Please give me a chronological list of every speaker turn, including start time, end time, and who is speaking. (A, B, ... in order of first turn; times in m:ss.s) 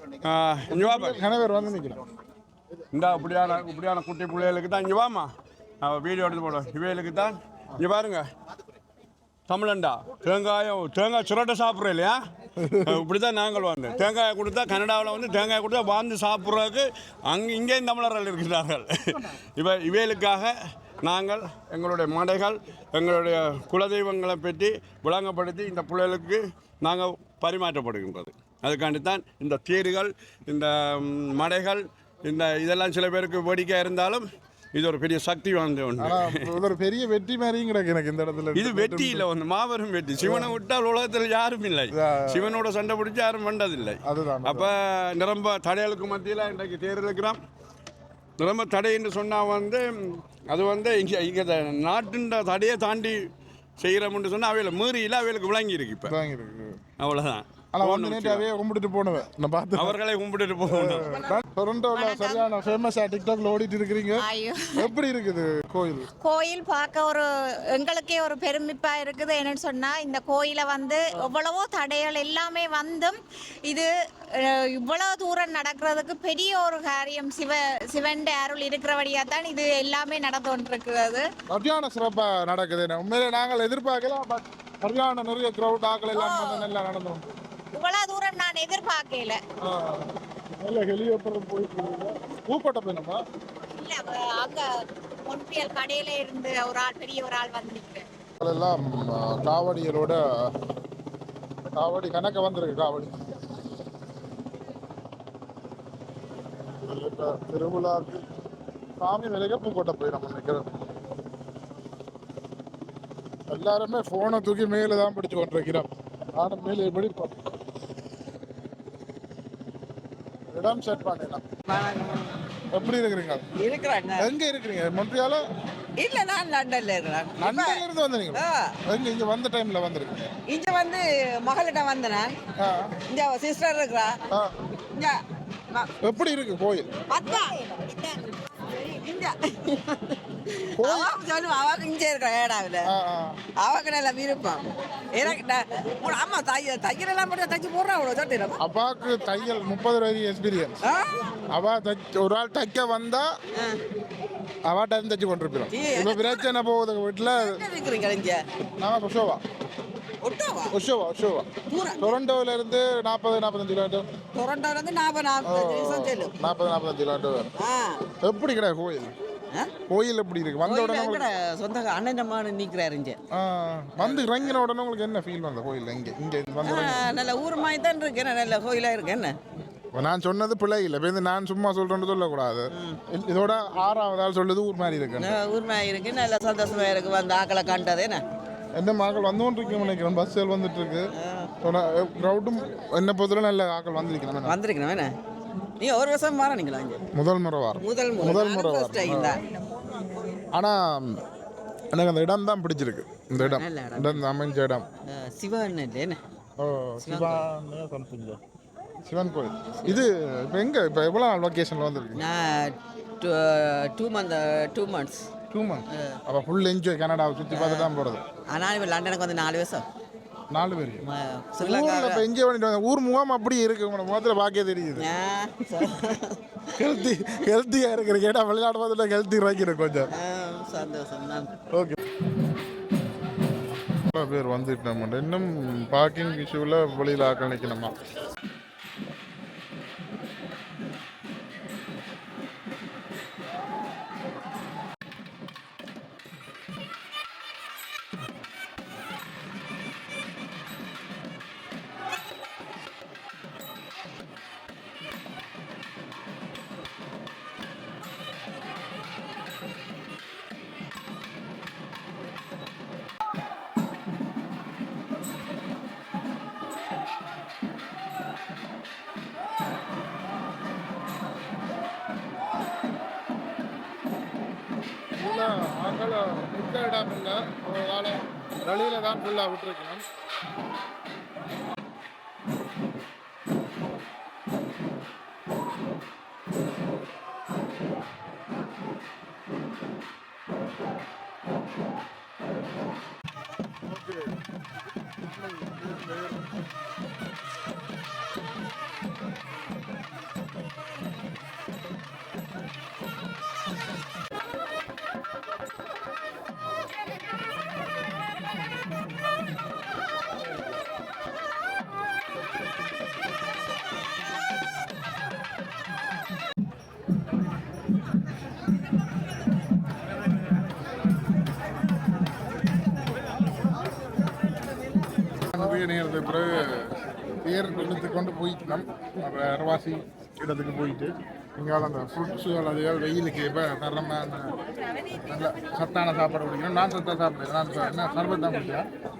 0:00.2-0:01.2 A
0:00.7-0:02.0 B
0:02.9-0:05.3 A
0:05.8-0:08.2 A
0:09.5-0:12.2 A
0:12.6-0:13.0 B
0:12.8-0:20.5 A
0:21.0-0:36.4 A
0:36.0-0:39.2 B
0:38.6-0:47.4 A
0:40.2-0:40.5 B
0:41.9-0:42.5 B
0:44.0-0:44.7 B
0:48.4-0:53.2 A
0:53.8-0:56.1 A
0:56.1-0:56.8 B
0:57.0-0:58.5 A
0:57.8-1:00.0 B
0:59.8-1:01.0 A
1:00.7-1:04.2 B
1:02.0-1:02.5 C
1:04.2-1:04.7 C
1:04.8-1:06.1 B
1:06.2-1:21.3 C
1:21.5-1:27.2 B
1:26.2-1:26.7 C
1:27.7-1:29.4 C
1:29.6-1:30.1 B
1:30.6-1:33.2 B
1:33.8-1:34.6 C
1:35.2-1:38.1 C
1:38.4-1:40.2 B
1:41.7-1:43.2 B
1:46.9-1:48.2 B
1:49.0-1:50.7 B
1:53.5-1:57.3 B
2:00.5-2:01.4 B
2:01.7-2:02.3 D
2:02.7-2:03.4 B
2:03.6-2:04.3 D
2:04.2-2:05.4 B
2:06.0-2:08.6 D
2:07.4-2:10.3 B
2:10.5-2:12.3 D
2:12.6-2:12.9 B
2:13.1-2:14.1 D
2:16.0-2:16.9 B
2:17.1-2:22.9 D
2:20.8-2:21.1 B
2:22.9-2:23.4 B
2:23.6-2:24.6 D
2:25.1-2:28.6 D
2:28.6-2:30.8 B
2:30.8-2:31.1 D
2:31.5-2:33.3 B
2:34.7-2:37.6 B
2:35.7-2:36.4 D
2:37.2-2:38.4 D
2:38.8-2:39.4 B
2:40.2-2:40.7 D
2:40.7-2:41.5 B
2:41.7-2:42.1 D
2:42.0-2:44.0 B
2:44.4-2:46.3 D
2:45.4-2:47.5 B
2:47.6-2:48.0 D
2:48.2-2:49.1 B
2:49.9-2:51.2 B
2:50.6-2:53.2 D
2:53.3-2:57.0 B
2:54.0-2:54.6 D
2:56.6-2:59.4 D
2:59.9-3:05.3 B
3:02.7-3:03.0 D
3:05.2-3:08.2 D
3:08.8-3:11.1 B
3:11.2-3:11.5 D
3:11.6-3:14.5 B
3:14.4-3:15.1 D
3:15.8-3:17.0 D
3:17.2-3:19.4 B
3:17.8-3:19.4 D
3:20.5-3:21.2 B
3:21.9-3:24.8 B
3:23.4-3:24.2 D
3:25.1-3:26.2 D
3:26.6-3:28.4 B
3:27.0-3:27.4 D
3:29.1-3:32.2 B
3:32.2-3:35.2 D
3:35.5-3:38.2 B
3:37.5-3:37.9 D
3:38.5-3:39.8 D
3:40.5-3:41.0 B
3:41.0-3:42.2 D
3:41.6-3:45.0 B
3:45.0-3:46.4 D
3:46.8-3:50.1 B
3:50.1-3:51.5 D
3:54.1-3:57.9 B
4:35.2-4:40.0 B
5:25.5-5:26.8 B
5:27.4-5:34.5 B
5:35.2-5:38.9 B